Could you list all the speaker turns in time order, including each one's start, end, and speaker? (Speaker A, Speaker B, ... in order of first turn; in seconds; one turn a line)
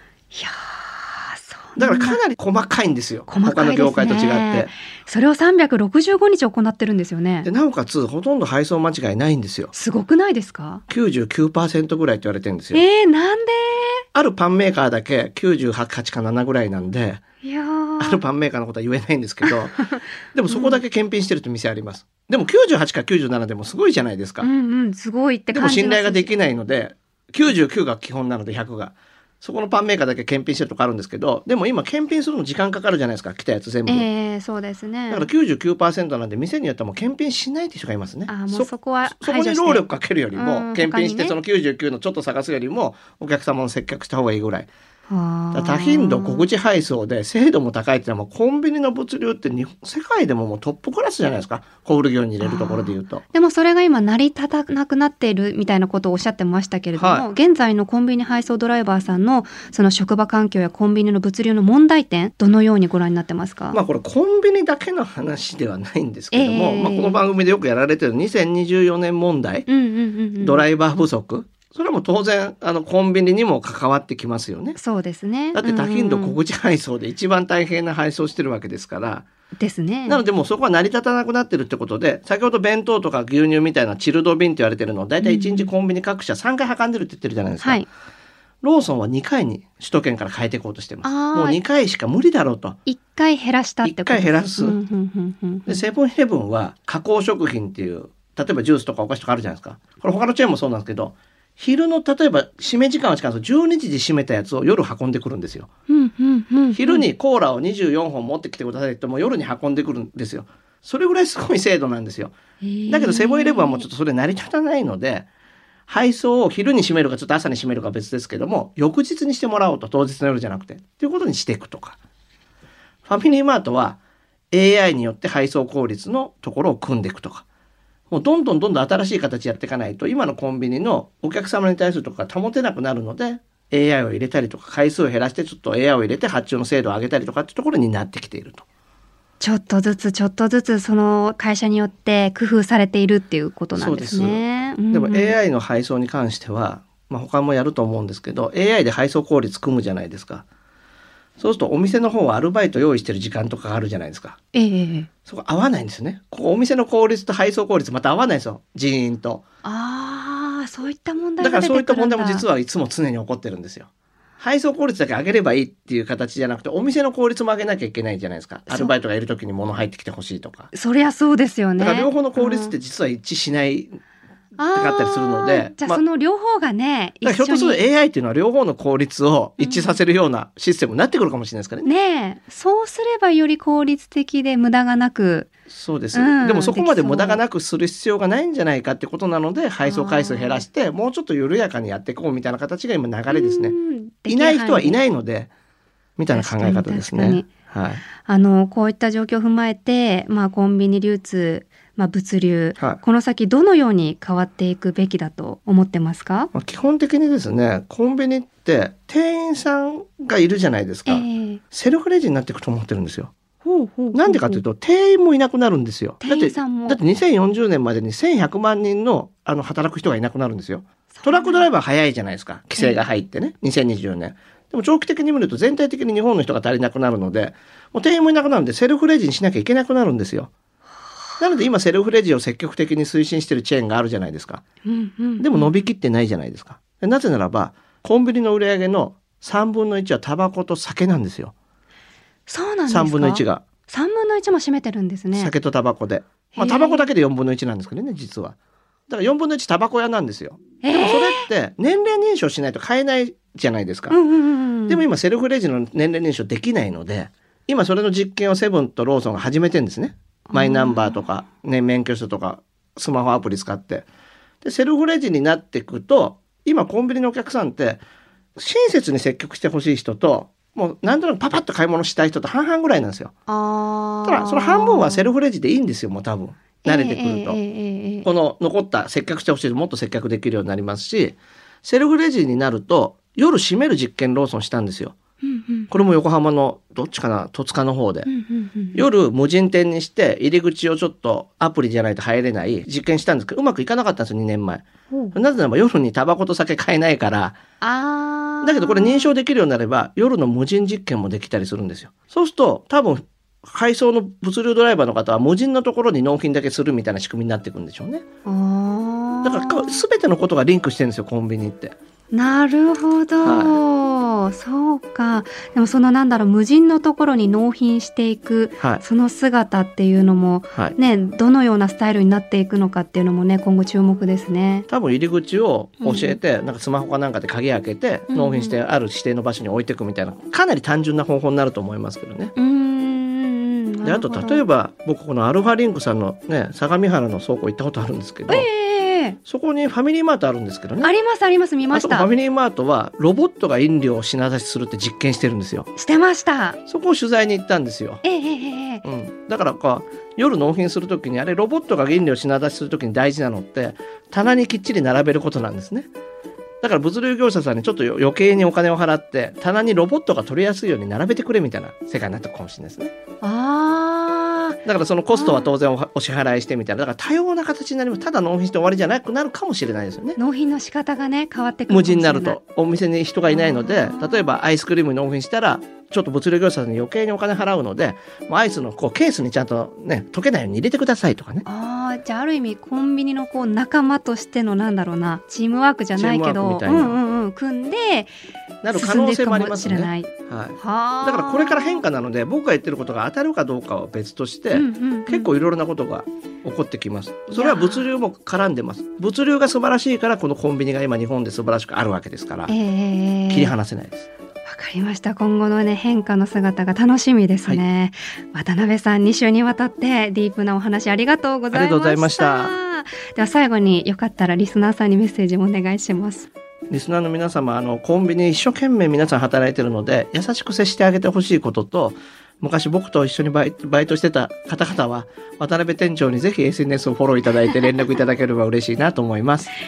Speaker A: 0.3-2.2
Speaker B: 1.8-4.7
Speaker A: 3.3-7.5
Speaker B: 7.4-9.7
Speaker A: 9.7-10.8
Speaker B: 10.9-12.8
Speaker A: 12.7-14.0
Speaker B: 14.1-17.2
Speaker A: 17.4-18.2
Speaker B: 18.0-24.5
Speaker A: 19.4-20.8
Speaker A: 24.4-26.3
Speaker B: 25.5-34.1
Speaker A: 33.9-35.3
Speaker B: 35.1-44.7
Speaker A: 38.3-41.4
Speaker A: 45.1-46.5
Speaker B: 45.5-53.2
Speaker A: 52.4-63.8
Speaker B: 57.0-57.3
Speaker B: 63.7-69.7
Speaker A: 66.3-67.2
Speaker A: 69.7-70.6
Speaker B: 70.4-74.8
Speaker A: 74.8-76.4
Speaker B: 75.5-79.2
Speaker A: 79.6-80.2
Speaker B: 80.1-87.8
Speaker A: 85.2-85.7
Speaker A: 87.6-87.9
Speaker B: 88.6-92.8
Speaker A: 91.0-91.6
Speaker A: 92.9-95.8
Speaker B: 93.8-94.8
Speaker B: 95.7-105.7
Speaker A: 105.9-107.1
Speaker B: 106.7-112.4
Speaker A: 112.6-113.9
Speaker B: 112.9-115.3
Speaker B: 115.9-122.0
Speaker B: 123.1-124.0
Speaker B: 124.5-127.4
Speaker B: 128.1-138.6
Speaker A: 139.4-145.4
Speaker B: 143.8-150.4
Speaker B: 151.4-154.4
Speaker A: 154.5-155.1
Speaker B: 155.3-159.4
Speaker A: 159.6-162.4
Speaker B: 161.4-163.9
Speaker B: 164.4-170.7
Speaker A: 168.7-168.9
Speaker A: 170.7-172.7
Speaker B: 171.8-174.0
Speaker A: 174.6-177.8
Speaker B: 174.7-176.0
Speaker B: 177.2-181.9
Speaker A: 179.6-180.0
Speaker A: 181.8-185.5
Speaker B: 185.7-193.8
Speaker A: 186.1-187.4
Speaker A: 189.8-190.7
Speaker A: 193.3-195.0
Speaker B: 194.3-195.5
Speaker B: 196.2-198.0
Speaker A: 196.3-197.5
Speaker A: 198.2-206.5
Speaker B: 206.5-213.3
Speaker A: 211.1-211.6
Speaker A: 213.6-214.6
Speaker B: 214.1-230.5
Speaker A: 216.2-217.0
Speaker A: 221.2-221.7
Speaker B: 231.4-234.6
Speaker A: 234.8-235.7
Speaker B: 235.4-241.5
Speaker A: 242.5-245.5
Speaker B: 242.9-243.6
Speaker B: 245.3-248.6
Speaker A: 246.6-247.1
Speaker B: 249.1-254.2
Speaker A: 250.8-251.5
Speaker A: 254.1-255.0
Speaker B: 254.9-264.1
Speaker A: 260.5-261.2
Speaker B: 264.6-268.0
Speaker B: 268.6-273.3
Speaker A: 273.5-275.3
Speaker B: 274.3-277.6
Speaker A: 276.8-278.3
Speaker B: 278.2-285.1
Speaker A: 285.4-285.9
Speaker B: 285.9-288.3
Speaker A: 288.3-289.0
Speaker B: 288.9-297.6
Speaker A: 295.1-295.4
Speaker A: 297.8-299.3
Speaker B: 298.6-308.2
Speaker A: 308.4-310.0
Speaker B: 309.4-311.9
Speaker A: 312.3-324.9
Speaker B: 313.4-313.8
Speaker B: 324.9-332.5
Speaker A: 326.0-326.4
Speaker A: 328.3-328.8
Speaker A: 332.6-334.6
Speaker B: 334.0-338.7
Speaker A: 338.5-339.4
Speaker B: 339.4-341.1
Speaker A: 341.0-342.3
Speaker B: 341.9-345.9
Speaker A: 345.9-346.8
Speaker B: 346.9-348.2
Speaker A: 348.2-349.1
Speaker B: 349.0-356.1
Speaker B: 356.8-363.1
Speaker A: 363.4-364.8
Speaker B: 364.8-370.4
Speaker A: 365.3-365.7
Speaker A: 370.4-372.6
Speaker B: 371.9-381.6
Speaker A: 373.5-374.6
Speaker A: 381.7-388.3
Speaker B: 386.1-387.2
Speaker B: 388.8-402.7
Speaker A: 388.9-392.1
Speaker A: 394.7-395.5
Speaker A: 397.5-398.1
Speaker A: 402.7-403.7
Speaker B: 403.5-404.3
Speaker A: 404.7-416.5
Speaker B: 411.7-412.8
Speaker B: 416.9-429.7